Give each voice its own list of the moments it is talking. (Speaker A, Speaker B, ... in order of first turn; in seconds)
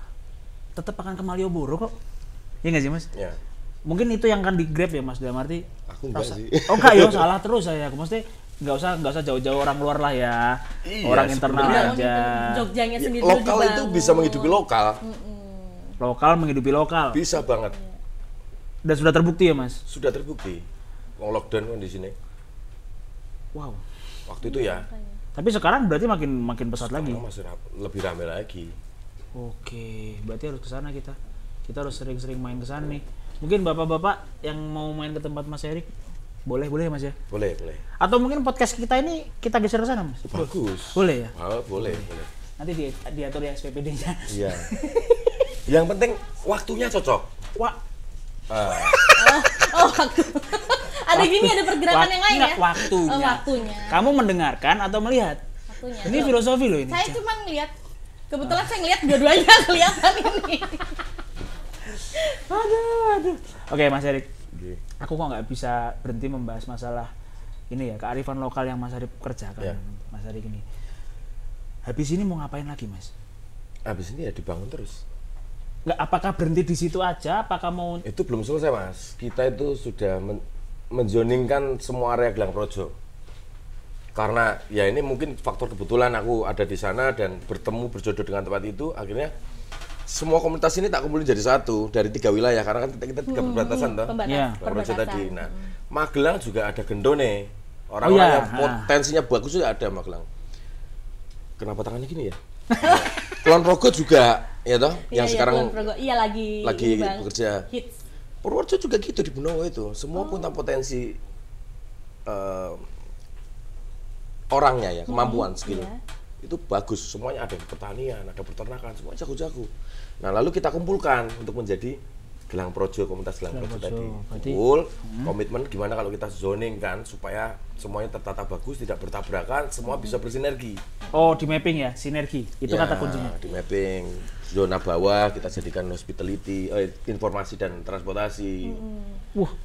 Speaker A: 0.8-1.9, 2.6-3.1, 3.9-12.7, 16.0-17.2, 18.9-19.8, 23.5-23.8, 25.4-27.2, 29.4-35.9, 36.5-37.1, 38.0-42.1, 42.6-45.2, 51.1-55.4, 56.0-57.2, 62.5-64.3, 65.0-67.1, 67.7-70.6, 71.9-73.1, 75.9-78.0, 94.2-94.6, 98.0-98.9, 102.7-103.0, 123.5-125.3, 131.1-133.4
Speaker B: 3.1-3.4, 5.9-7.3, 10.8-11.9, 13.0-15.0, 17.1-17.8, 19.9-20.6, 21.2-22.1, 24.3-24.9, 26.8-28.7, 37.3-37.8, 40.2-42.3, 44.3-44.7, 45.7-47.3, 48.5-49.4, 64.5-64.8, 73.9-75.0, 78.0-82.9, 84.1-89.3, 90.1-100.2, 101.6-105.9, 106.6-107.7, 108.4-111.2, 112.2-112.8, 114.5-115.9, 116.4-119.7, 120.2-122.0, 122.5-130.8, 132.6-138.8
Speaker C: 11.5-16.0, 17.6-18.0, 24.4-25.2, 49.1-54.0, 55.7-57.7, 58.3-61.0, 93.3-95.7, 102.8-103.1, 105.1-107.9, 110.1-110.5, 115.1-116.0, 129.9-130.1, 131.0-131.8, 138.6-139.2